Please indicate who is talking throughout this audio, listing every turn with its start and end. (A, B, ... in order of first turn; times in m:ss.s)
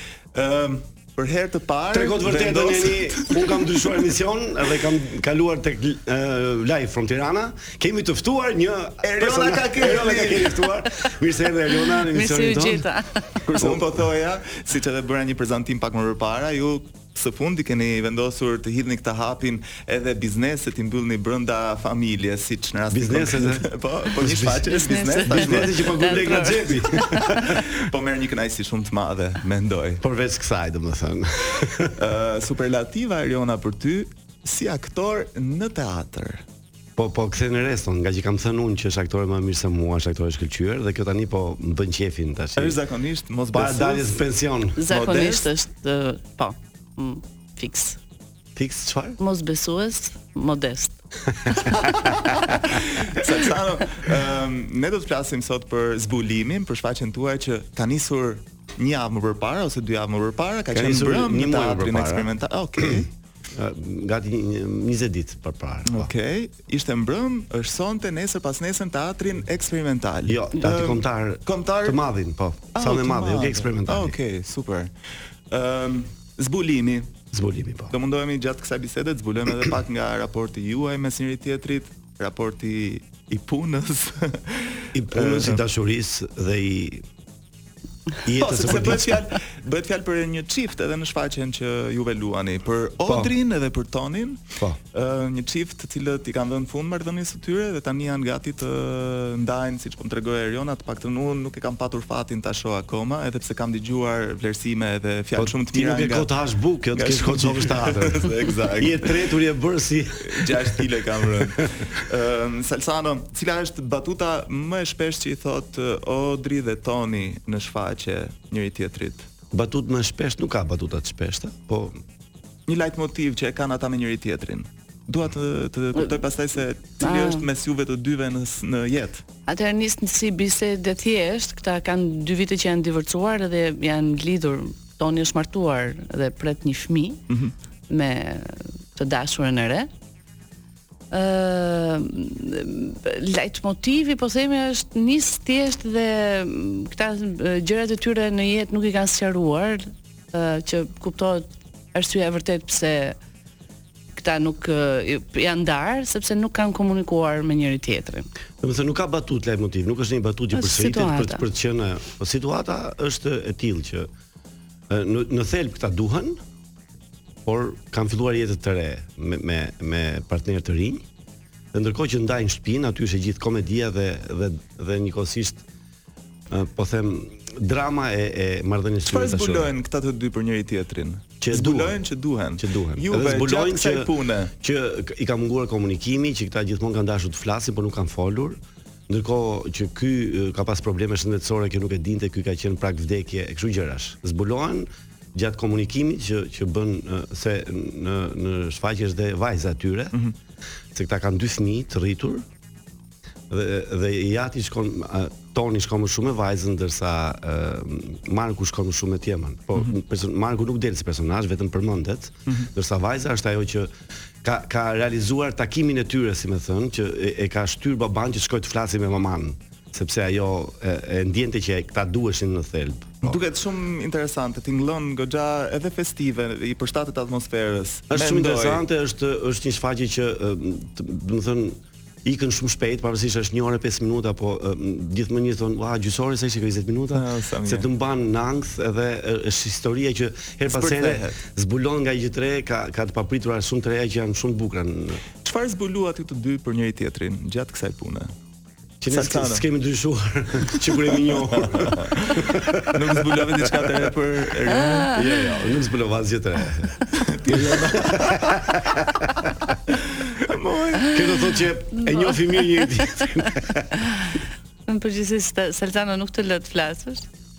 0:00.3-0:03.5 A
0:01.9-0:12.8 B
0:09.0-0:10.7 A
0:12.0-0:13.6 C
0:13.5-0:13.9 B
0:13.5-0:25.9 A
0:22.9-0:23.7 B
0:24.2-0:27.2 B
0:24.7-0:27.6 C
0:26.9-0:30.0 A
0:30.0-0:32.0 B
0:32.0-0:36.4 A
0:37.0-0:42.8 B
0:42.6-0:44.2 A
0:43.5-0:44.8 B
0:44.8-0:48.0 C
0:44.9-0:45.5 A
0:48.6-0:49.2 B
0:49.2-0:51.0 C
0:51.4-0:52.1 B
0:51.7-1:03.1 A
1:00.7-1:03.0 B
1:03.5-1:06.1 B
1:05.9-1:12.0 A
1:10.3-1:14.2 B
1:12.8-1:14.9 A
1:15.5-1:17.1 A
1:17.3-1:17.9 B
1:17.9-1:25.6 A
1:24.9-1:27.0 B
1:28.2-1:29.2 B
1:28.4-1:46.3 A
1:33.1-1:33.3 B
1:45.4-1:50.8 B
1:47.0-1:49.2 A
1:50.2-1:59.3 A
1:59.5-2:02.0 B
2:02.7-2:09.2 A
2:07.0-2:07.4 C
2:09.5-2:17.3 C
2:17.9-2:19.9 C
2:21.1-2:33.2 C
2:34.2-2:38.3 C
2:38.6-2:44.1 B
2:40.5-2:41.4 C
2:44.9-2:46.4 B
2:47.4-2:51.1 B
2:51.7-2:55.6 B
2:56.5-2:59.7 B
2:59.1-3:04.5 A
3:01.4-3:02.0 B
3:02.6-3:20.2 B
3:20.9-3:22.5 B
3:23.5-3:33.9 B
3:34.4-3:43.4 B
3:43.2-3:48.8 A
3:48.1-4:05.2 B
3:57.1-3:57.9 A
4:00.7-4:01.4 A
4:05.4-4:08.3 A
4:09.0-4:13.9 B
4:09.1-4:09.6 A
4:11.1-4:15.2 A
4:14.8-4:15.2 C
4:15.1-4:19.8 B
4:17.2-4:18.7 A
4:20.0-4:21.3 A
4:21.1-4:24.0 B
4:22.0-4:23.5 C
4:24.9-4:27.3 C